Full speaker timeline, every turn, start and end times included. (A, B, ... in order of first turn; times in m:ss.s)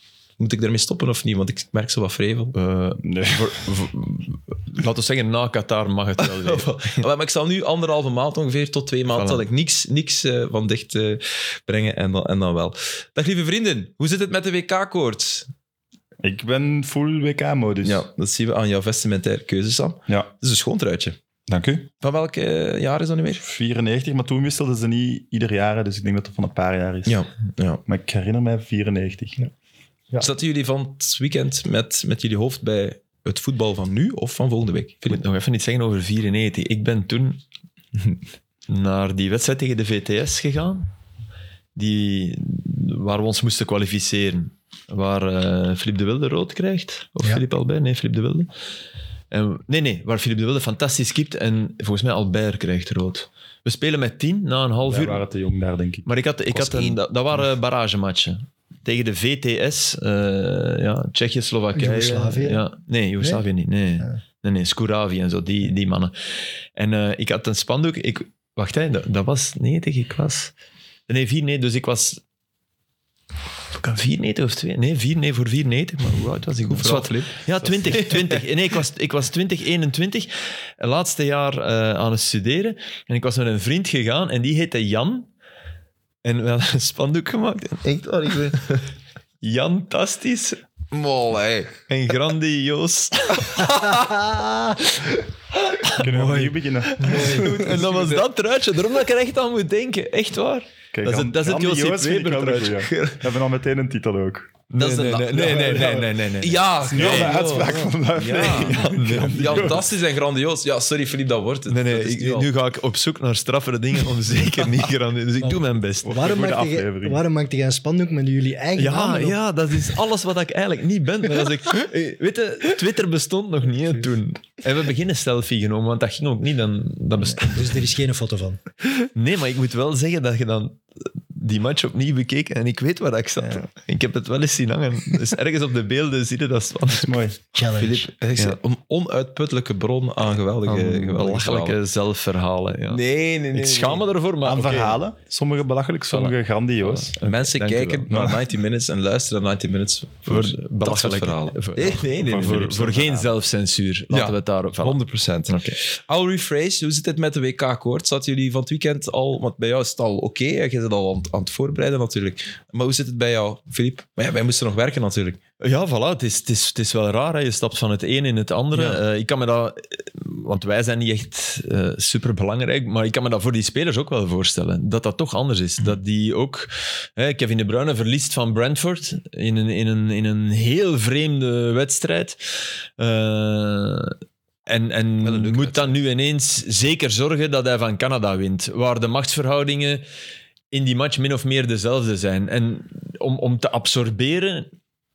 0:00.4-0:02.5 A
0:02.5-0:07.0 B
0:03.0-0:03.7 C
0:06.2-0:15.5 A
0:09.1-0:09.4 B
0:16.2-0:18.0 C
0:17.8-0:21.2 A
0:21.5-0:21.9 C
0:22.0-0:23.4 A
0:23.4-0:27.2 C
0:27.0-0:27.8 A
0:27.8-0:29.4 C
0:30.2-0:35.2 A
0:35.0-0:37.4 B
0:38.7-0:40.9 B
0:41.7-0:48.5 B
0:49.3-0:55.2 B
0:54.9-0:56.1 C
0:56.0-1:06.1 B
0:56.5-0:57.0 A
1:01.7-1:02.6 D
1:06.7-1:10.5 B
1:11.1-1:12.2 B
1:13.7-1:25.3 B
1:16.6-1:18.4 A
1:26.2-1:28.9 B
1:29.4-1:30.6 B
1:30.9-1:31.7 A
1:31.9-1:33.8 B
1:33.6-1:35.0 D
1:35.7-1:36.0 B
1:35.9-1:37.8 D
1:36.0-1:37.8 C
1:37.0-1:43.2 B
1:37.7-1:38.2 A
1:40.9-1:44.5 C
1:44.7-1:47.8 B
1:44.8-1:52.5 A
1:45.3-1:46.1 C
1:46.8-1:49.8 C
1:48.3-1:49.8 B
1:51.7-1:56.2 B
1:55.4-1:59.4 D
1:56.0-1:57.2 C
1:58.8-2:07.9 B
2:07.3-2:08.6 D
2:09.0-2:17.2 B
2:16.9-2:17.4 C
2:17.5-2:18.1 D
2:17.7-2:21.8 A
2:20.6-2:25.0 B
2:22.9-2:24.1 A
2:24.4-2:27.2 C
2:26.8-2:28.1 B
2:27.2-2:32.6 A
2:28.1-2:28.4 C
2:30.2-2:35.8 B
2:32.1-2:33.3 C
2:34.1-2:45.4 A
2:45.6-3:10.0 B
2:48.7-2:49.0 A
3:05.2-3:05.9 A
3:10.7-3:14.7 B